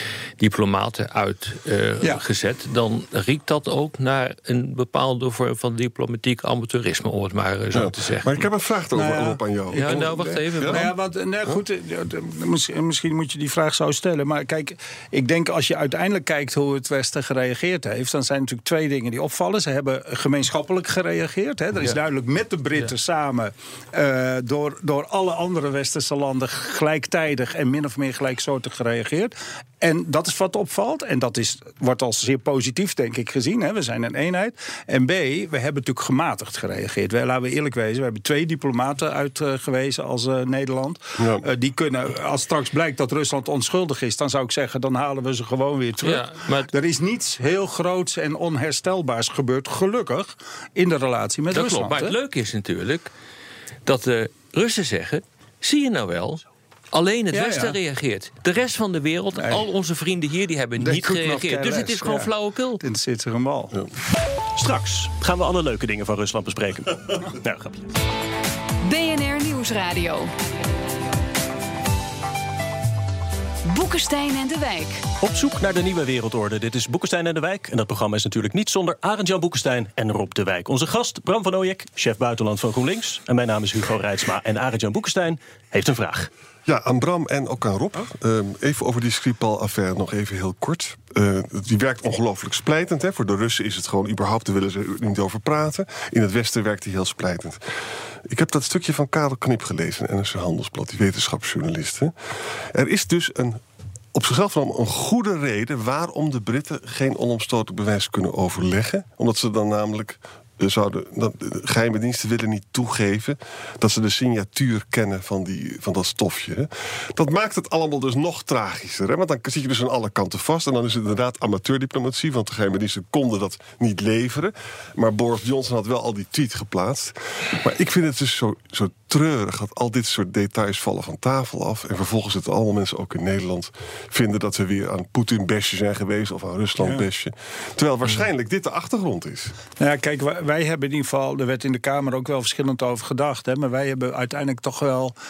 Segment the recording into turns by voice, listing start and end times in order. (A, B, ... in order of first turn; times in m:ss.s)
0:00.4-0:08.4 A
0:07.7-0:10.9 B
0:08.9-0:52.1 C
0:09.7-0:10.9 A
0:41.2-0:41.4 B
0:46.0-0:46.7 A
0:51.5-0:53.1 A
0:53.8-1:02.8 A
0:57.3-0:57.8 C
0:59.4-0:59.6 C
1:00.8-1:03.8 C
1:04.6-1:07.7 D
1:08.8-1:10.3 E
1:13.6-1:15.1 E
1:15.2-1:26.3 D
1:26.6-1:37.6 B
1:38.3-1:42.1 B
1:42.7-1:43.6 B
1:44.1-2:19.5 B
2:19.8-2:25.1 C